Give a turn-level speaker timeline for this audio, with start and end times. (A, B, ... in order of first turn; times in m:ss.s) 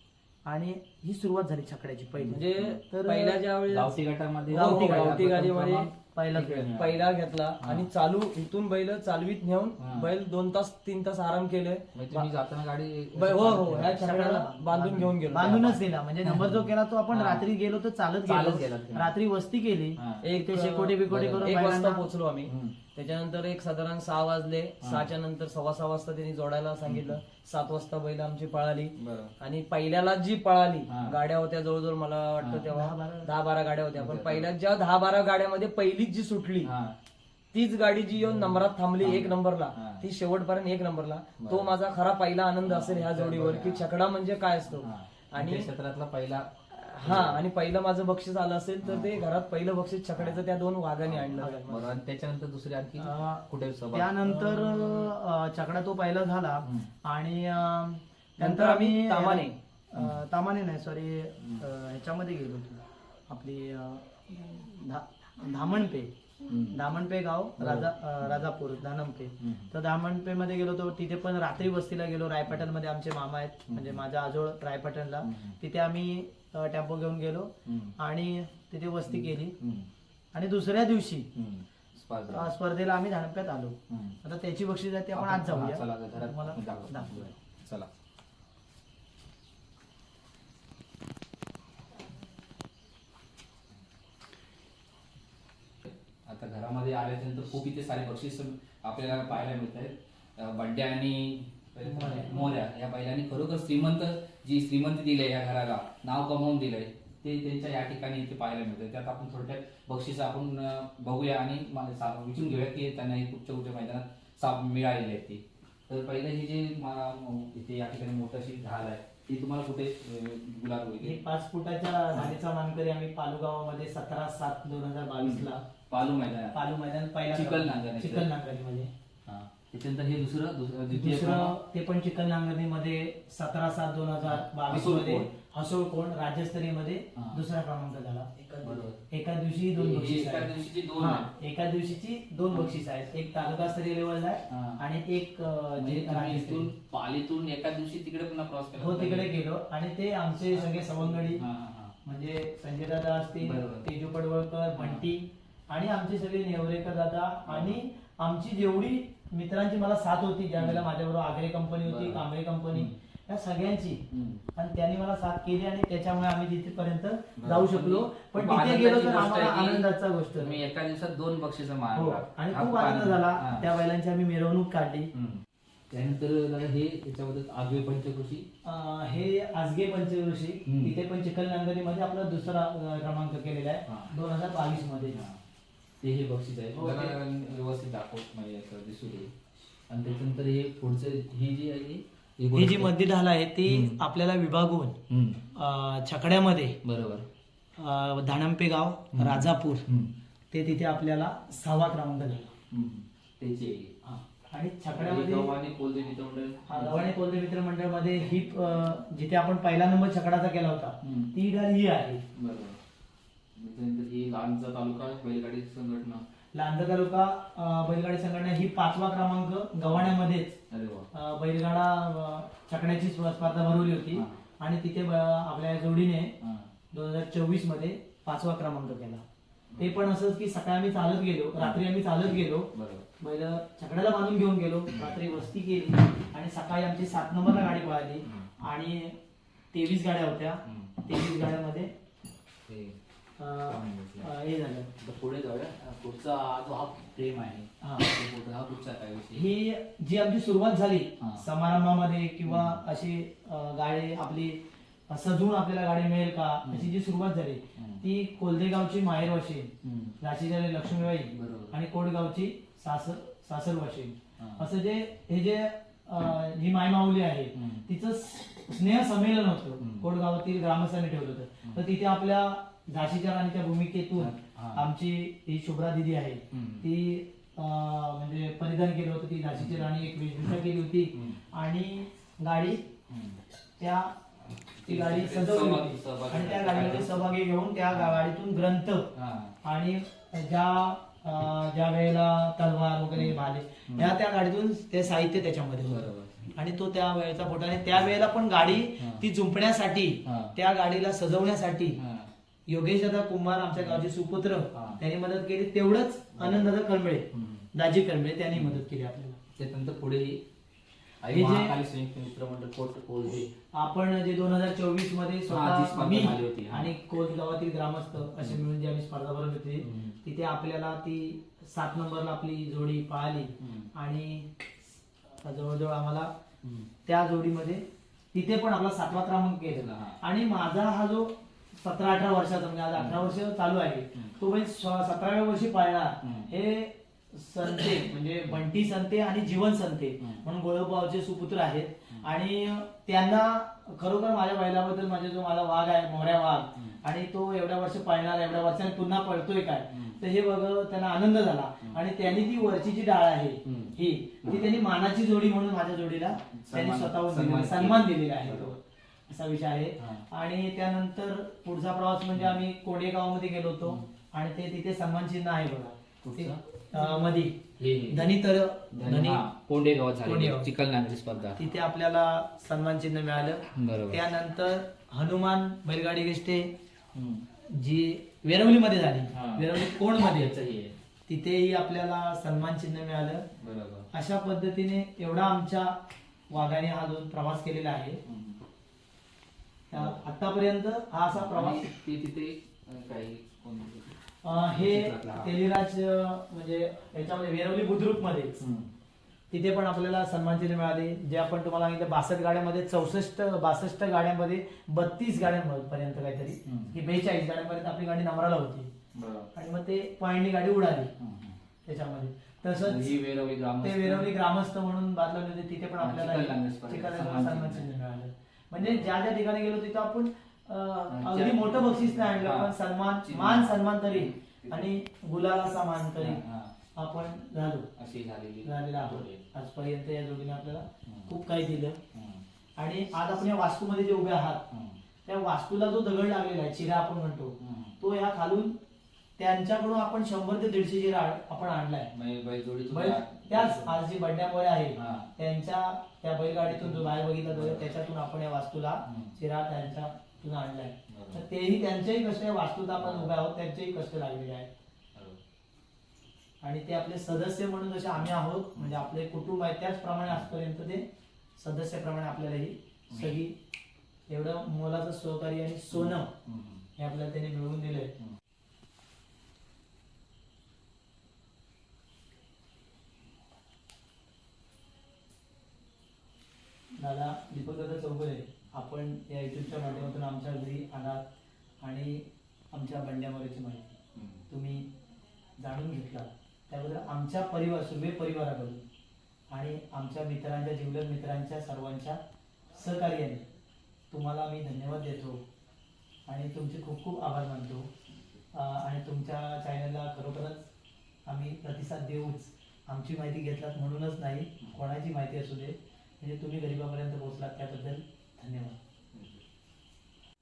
0:00.5-0:03.4 A
0:02.2-0:02.8 B
0:02.3-0:04.0 C
0:03.7-0:07.1 B
0:04.5-0:05.9 C
0:04.5-0:05.2 A
0:06.1-0:06.8 A
0:06.7-0:12.3 C
0:07.6-0:07.9 B
0:09.8-0:10.1 B
0:12.0-0:13.9 B
0:13.2-0:15.8 C
0:13.7-0:22.1 A
0:16.2-0:17.5 B
0:18.2-0:19.1 B
0:20.0-0:20.2 B
0:20.2-0:36.7 C
0:22.5-0:22.8 B
0:24.8-0:25.1 B
0:26.9-0:27.2 B
0:29.0-0:29.3 B
0:30.9-0:31.2 B
0:32.4-0:32.7 B
0:32.7-0:33.3 A
0:34.0-0:34.5 B
0:36.6-0:37.0 B
0:37.5-0:45.7 C
0:38.2-0:40.1 B
0:41.4-0:41.7 B
0:42.6-0:43.9 B
0:44.8-0:47.4 B
0:46.7-0:51.9 C
0:48.8-0:49.2 B
0:50.2-0:50.4 B
0:51.0-0:54.2 B
0:51.4-0:51.7 A
0:53.0-1:06.1 A
0:54.2-0:55.1 C
0:58.4-0:59.6 C
1:00.0-1:00.2 B
1:01.4-1:01.6 B
1:06.5-1:06.8 B
1:06.7-1:19.6 A
1:07.6-1:08.4 B
1:09.4-1:09.7 B
1:13.7-1:14.0 B
1:15.2-1:15.6 B
1:17.7-1:18.0 B
1:19.1-1:19.9 B
1:20.3-1:21.3 A
1:21.4-1:22.5 B
1:22.3-1:27.3 A
1:23.9-1:24.2 B
1:25.1-1:27.9 B
1:35.9-2:01.2 B
1:41.8-1:42.5 A
2:01.0-2:05.6 A
2:05.2-2:06.6 B
2:06.5-2:08.9 A
2:07.3-2:08.3 B
2:09.3-2:11.6 B
2:10.9-2:18.3 A
2:14.3-2:15.3 B
2:18.4-2:18.8 C
2:18.6-2:19.0 B
2:19.1-2:26.7 A
2:19.7-2:21.3 B
2:22.5-2:22.8 B
2:24.5-2:24.8 B
2:25.8-2:29.4 B
2:28.8-2:31.4 A
2:30.4-2:32.0 B
2:32.0-2:44.0 A
2:33.4-2:33.9 B
2:34.8-2:35.0 B
2:37.5-2:37.8 B
2:40.6-2:40.8 B
2:41.8-2:42.9 B
2:44.1-2:44.4 B
2:44.6-2:50.6 A
2:47.4-2:53.7 B
2:52.0-2:55.1 A
2:55.1-2:58.5 B
2:58.6-3:05.2 A
3:00.7-3:00.9 B
3:05.1-3:05.4 B
3:06.0-3:09.3 B
3:06.8-3:07.2 A
3:09.9-3:12.9 B
3:12.5-3:15.0 A
3:13.7-3:14.0 B
3:15.1-3:15.4 B
3:15.5-3:16.8 A
3:16.8-3:17.3 B
3:17.8-3:19.9 A
3:19.1-3:20.1 B
3:20.5-3:22.5 A
3:22.7-3:24.0 B
3:24.0-3:25.5 A
3:24.9-3:27.2 B
3:26.7-3:32.2 A
3:31.0-3:31.3 B
3:32.3-3:32.8 B
3:33.6-3:36.2 B
3:36.5-3:40.6 A
3:40.7-3:41.1 B
3:41.1-3:46.4 A
3:44.1-3:44.4 B
3:46.4-3:46.7 B
3:46.9-3:49.2 A
3:49.7-3:50.0 B
3:49.8-3:59.2 A
3:52.7-3:53.1 B
3:54.9-3:55.3 B
3:59.7-4:01.9 A
4:00.6-4:01.1 B
4:02.7-4:03.0 B
4:03.4-4:04.9 A
4:03.7-4:04.3 B
4:05.0-4:09.5 B
4:07.8-4:08.1 A
4:09.4-4:42.9 A
4:12.5-4:12.8 B
4:16.6-4:16.9 B
4:17.8-4:18.0 B
4:19.8-4:20.2 B
4:21.3-4:21.8 B
4:24.4-4:24.7 B
4:27.5-4:27.9 B
4:29.8-4:30.1 B
4:34.2-4:34.9 B
4:36.5-4:36.9 B
4:39.6-4:39.9 B
4:41.1-4:41.4 B
4:43.1-4:43.4 B
4:43.8-4:44.1 A
4:44.8-4:47.3 B
4:44.8-4:49.1 A
4:47.9-4:48.2 B
4:49.1-4:49.6 B
4:49.6-5:02.0 A
4:53.2-4:54.2 B
4:55.9-4:56.4 B
4:59.0-4:59.3 B
5:00.2-5:00.6 B
5:02.0-5:02.3 B
5:02.7-5:09.4 A
5:03.8-5:04.1 B
5:04.7-5:05.0 B
5:06.3-5:06.7 B
5:07.3-5:07.7 B
5:08.5-5:08.8 B
5:09.6-5:10.4 B
5:11.2-5:13.5 B
5:11.3-5:11.8 A
5:13.7-5:24.5 A
5:15.5-5:16.9 B
5:18.4-5:18.6 B
5:19.8-5:20.2 B
5:23.6-5:23.9 B
5:25.4-5:26.3 A
5:27.0-5:58.8 A
5:29.7-5:30.2 B
5:33.0-5:33.4 B
5:36.2-5:36.5 B
5:40.2-5:40.4 B
5:49.9-5:50.2 B
5:53.6-5:54.7 B
5:56.5-5:58.8 B
5:59.3-6:07.6 A
6:00.0-6:00.3 B
6:02.4-6:02.6 B
6:06.2-6:06.6 B
6:07.8-6:08.3 B
6:08.1-6:09.4 A
6:08.9-6:11.6 B
6:10.2-6:10.7 A
6:11.6-6:16.7 A
6:13.8-6:14.2 B
6:17.1-6:17.4 B
6:17.7-6:20.5 A
6:19.3-6:19.7 B
6:20.3-6:20.9 B
6:21.3-6:23.4 A
6:23.6-6:24.1 B
6:24.1-6:26.0 A
6:26.5-6:28.2 A
6:28.2-6:28.6 B
6:29.9-6:31.9 A
6:29.9-6:30.2 B
6:31.3-6:35.6 B
6:34.4-6:38.6 A
6:38.6-6:38.9 B
6:39.5-6:48.9 A
6:46.6-6:47.0 B
6:49.1-6:49.5 B
6:49.5-6:51.1 A
6:51.2-6:51.6 B
6:51.8-6:53.2 A
6:52.8-6:54.3 B
6:53.8-7:06.4 A
6:56.0-6:57.9 B
6:58.8-6:59.1 B
7:01.1-7:04.9 B
7:06.2-7:06.7 B
7:07.0-7:07.9 A
7:08.0-7:09.4 B
7:08.6-7:12.0 A
7:11.1-7:11.3 B
7:12.1-7:12.4 B
7:12.8-7:14.6 A
7:14.7-7:15.0 B
7:15.3-7:18.8 A
7:17.6-7:18.0 B
7:19.4-7:22.1 A
7:22.1-7:24.0 B
7:22.9-7:34.7 A
7:25.0-7:25.3 B
7:26.7-7:27.9 B
7:29.1-7:29.4 B
7:31.1-7:31.4 B
7:33.0-7:33.4 B
7:35.2-7:35.4 B
7:36.6-7:43.6 A
7:43.1-7:43.4 B
7:44.3-7:46.3 A
7:45.9-7:46.9 B
7:47.0-7:48.2 A
7:57.0-8:01.2 A
8:01.8-8:03.9 A
8:04.2-8:04.4 B
8:04.5-8:04.9 A
8:05.6-8:08.8 A
8:09.5-8:12.2 A
8:12.7-8:13.5 A
8:14.1-8:15.4 A
8:16.3-8:17.9 A
8:18.5-8:20.7 A
8:21.3-8:28.8 A
8:29.1-8:29.4 B